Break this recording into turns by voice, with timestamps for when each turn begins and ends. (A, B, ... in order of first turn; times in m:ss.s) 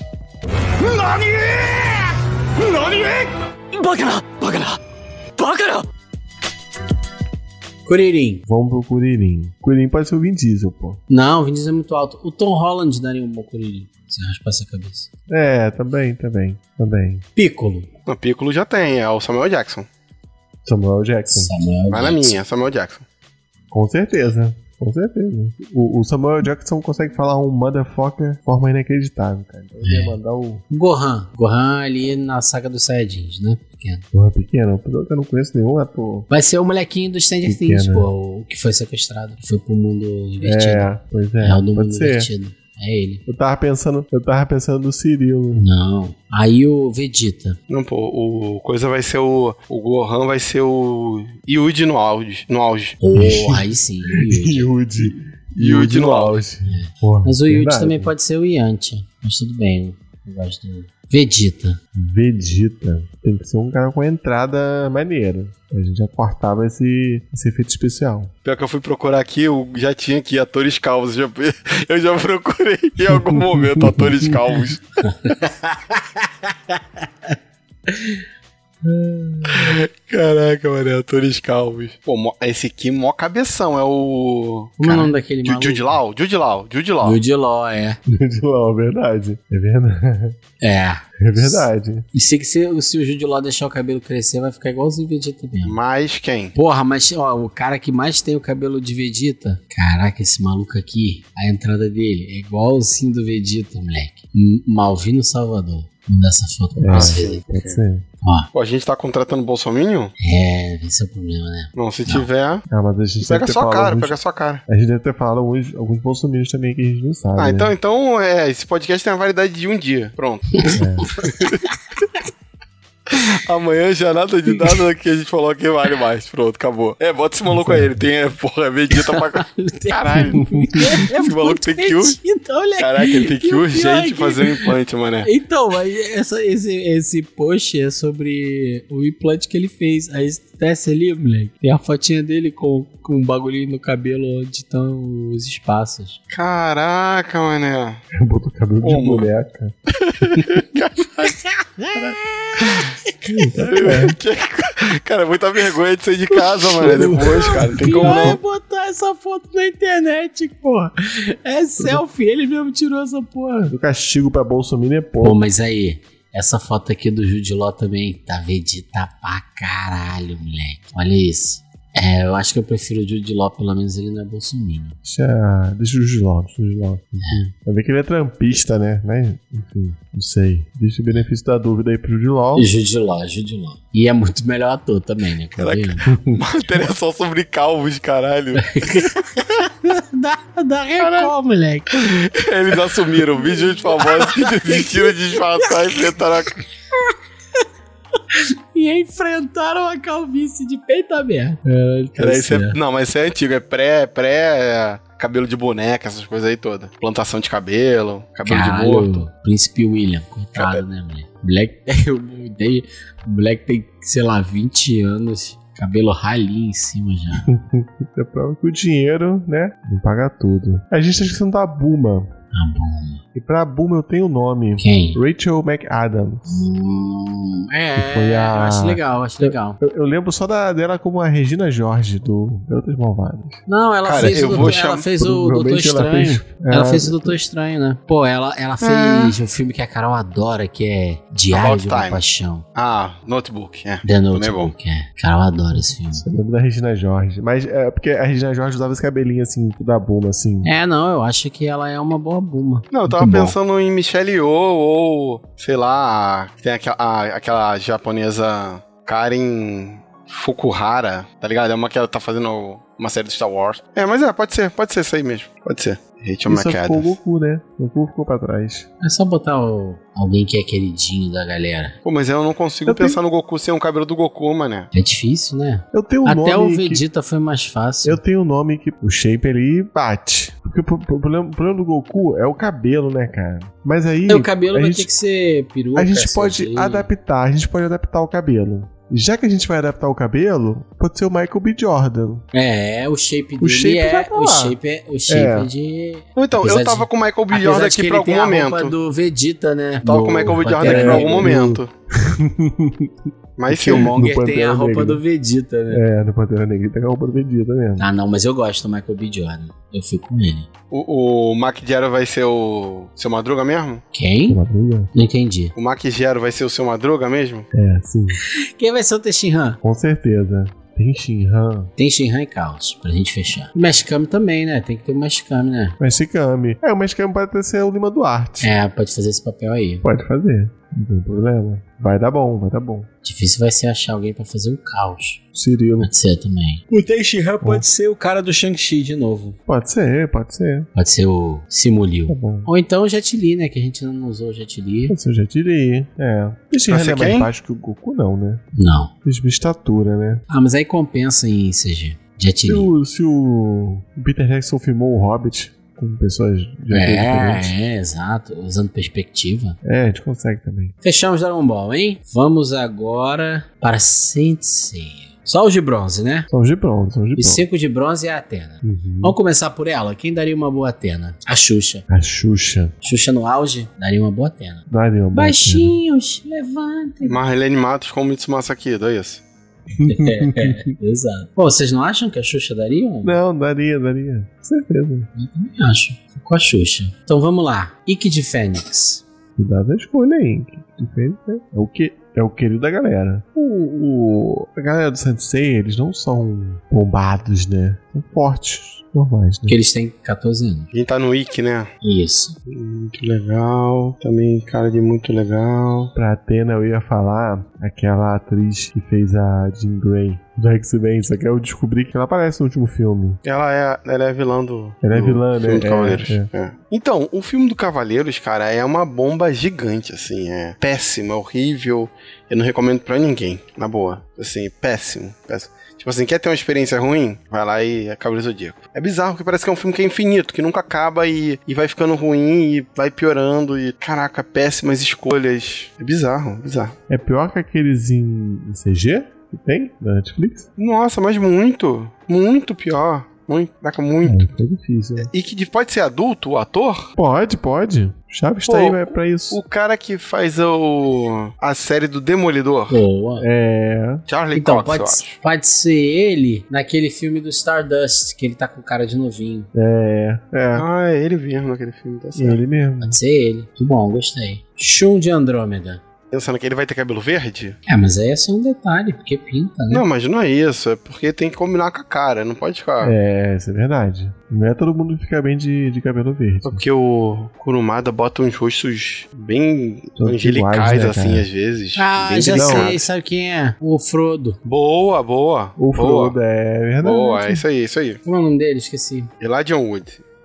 0:00.8-0:04.8 A
0:05.4-0:05.9 A
0:07.8-0:08.4 A
0:08.5-0:11.0 B
0:11.1-0:15.1 A
0:15.3-0:17.2 B
0:17.4-0:17.9 A
0:18.1-0:19.9 C
0:20.6-0:21.5 B
0:21.3-0:22.4 A
0:21.9-0:23.0 C
0:23.7-0:30.6 B
0:29.8-0:30.2 A
0:30.7-0:34.0 A
0:34.1-0:36.3 B
0:36.3-0:43.2 A
0:37.4-0:38.1 B
0:40.4-0:42.3 B
0:43.3-0:45.7 B
0:45.6-0:47.6 A
0:47.7-0:53.0 C
0:53.0-0:54.7 A
0:53.2-0:58.1 B
0:55.5-0:56.4 C
0:56.6-1:01.8 A
1:01.9-1:08.3 B
1:08.4-1:15.0 C
1:13.4-1:14.3 B
1:15.1-1:17.4 A
1:17.9-1:18.2 A
1:18.9-1:19.6 B
1:19.5-1:27.2 C
1:24.8-1:25.9 A
1:27.0-1:28.0 A
1:28.1-1:30.4 B
1:30.6-1:35.8 A
1:31.2-1:32.0 B
1:35.6-1:36.5 C
1:36.5-1:47.4 A
1:46.8-1:48.1 B
1:46.9-1:47.8 C
1:48.2-1:48.5 A
1:48.5-1:50.1 C
1:50.2-1:52.2 A
1:51.8-1:52.6 C
1:52.7-1:54.2 B
1:53.2-1:54.6 C
1:54.7-1:57.7 B
1:57.4-2:01.6 C
2:00.6-2:01.5 A
2:00.8-2:01.1 B
2:03.1-2:12.2 C
2:07.5-2:08.0 B
2:08.9-2:14.7 A
2:10.1-2:10.9 B
2:12.8-2:15.3 C
2:15.2-2:26.2 A
2:26.3-2:28.0 C
2:28.1-2:29.7 B
2:28.8-2:29.3 C
2:30.0-2:31.3 C
2:31.2-2:34.0 A
2:33.4-2:34.2 B
2:33.6-2:38.4 C
2:36.6-2:43.7 A
2:36.8-2:38.4 B
2:43.7-2:45.4 B
2:45.2-2:55.0 A
2:55.0-3:02.7 B
2:57.1-2:57.5 A
3:02.5-3:06.1 A
3:05.6-3:09.4 C
3:08.6-3:12.2 A
3:11.0-3:11.3 C
3:11.9-3:16.6 C
3:13.9-3:17.1 A
3:18.3-3:22.8 A
3:22.2-3:29.2 C
3:28.4-3:37.5 A
3:30.6-3:30.8 C
3:37.4-3:42.3 B
3:42.5-3:43.2 A
3:43.3-3:46.4 B
3:44.8-3:45.2 A
3:46.5-3:49.8 A
3:48.0-3:53.6 B
3:53.7-4:02.6 A
3:54.0-3:55.1 C
3:54.2-3:57.4 B
3:58.8-3:59.4 C
4:01.5-4:02.2 C
4:02.7-4:04.7 C
4:04.0-4:06.2 A
4:05.7-4:10.7 B
4:10.6-4:12.9 A
4:12.9-4:27.1 C
4:13.1-4:13.6 B
4:26.4-4:28.9 B
4:29.0-4:32.0 A
4:32.0-4:34.9 C
4:32.8-4:33.2 B
4:34.9-4:38.2 A
4:35.9-4:37.0 B
4:38.0-4:45.1 B
4:44.3-4:47.1 A
4:45.9-4:52.4 B
4:52.5-5:01.6 A
4:53.6-4:55.7 B
4:56.4-4:58.9 C
5:00.0-5:01.9 C
5:00.8-5:03.1 B
5:03.6-5:04.1 C
5:03.7-5:05.2 B
5:03.7-5:06.0 A
5:05.9-5:08.1 B
5:08.0-5:10.7 A
5:10.9-5:14.0 C
5:14.1-5:14.6 A
5:14.5-5:15.1 B
5:15.1-5:15.7 A
5:15.8-5:17.7 C
5:17.7-5:18.4 B
5:18.4-5:19.8 A
5:19.8-5:21.9 B
5:22.0-5:26.0 A
5:26.0-5:28.7 B
5:28.6-5:30.0 A
5:30.0-5:33.1 B
5:33.2-5:35.4 A
5:35.5-5:36.1 B
5:36.0-5:39.6 A
5:37.6-5:37.9 B
5:39.7-5:40.9 B
5:40.9-5:45.2 A
5:42.3-5:42.7 B
5:45.1-5:48.7 B
5:46.9-5:47.5 C
5:48.7-5:49.1 A
5:49.2-5:50.4 B
5:50.5-5:52.9 A
5:52.6-5:57.7 B
5:56.9-5:59.8 A
5:59.8-6:00.9 B
6:01.0-6:06.5 A
6:06.5-6:07.6 B
6:07.4-6:12.0 A
6:08.8-6:09.4 B
6:12.1-6:13.0 B
6:13.0-6:17.4 A
6:14.9-6:16.0 B
6:17.2-6:19.4 C
6:20.0-6:20.8 B
6:20.0-6:23.4 A
6:23.2-6:25.3 B
6:25.3-6:29.2 A
6:29.6-6:39.8 B
6:39.7-6:40.9 A
6:40.9-6:41.9 C
6:42.0-6:42.6 A
6:42.7-6:46.1 C
6:46.1-6:53.4 B
6:53.4-7:17.0 C
6:55.0-6:56.5 B
7:17.1-7:20.7 B
7:20.8-7:24.4 C
7:24.2-7:25.3 B
7:25.2-7:27.1 C
7:27.1-7:29.6 B
7:28.7-7:33.0 C
7:32.9-7:33.5 A
7:33.4-7:34.2 B
7:34.3-7:35.4 C
7:34.5-7:39.7 A
7:39.7-7:40.9 B
7:40.7-7:42.6 C
7:42.3-7:43.2 B
7:43.0-7:46.0 A
7:46.3-7:47.8 C
7:47.9-7:50.0 A
7:49.9-7:53.2 C
7:53.0-7:56.8 B
7:56.6-8:03.0 C
8:00.2-8:01.5 B
8:02.0-8:04.6 A
8:02.5-8:03.0 B
8:04.6-8:06.4 C
8:05.8-8:07.6 B
8:07.0-8:08.2 C
8:08.2-8:09.3 A
8:09.4-8:10.2 C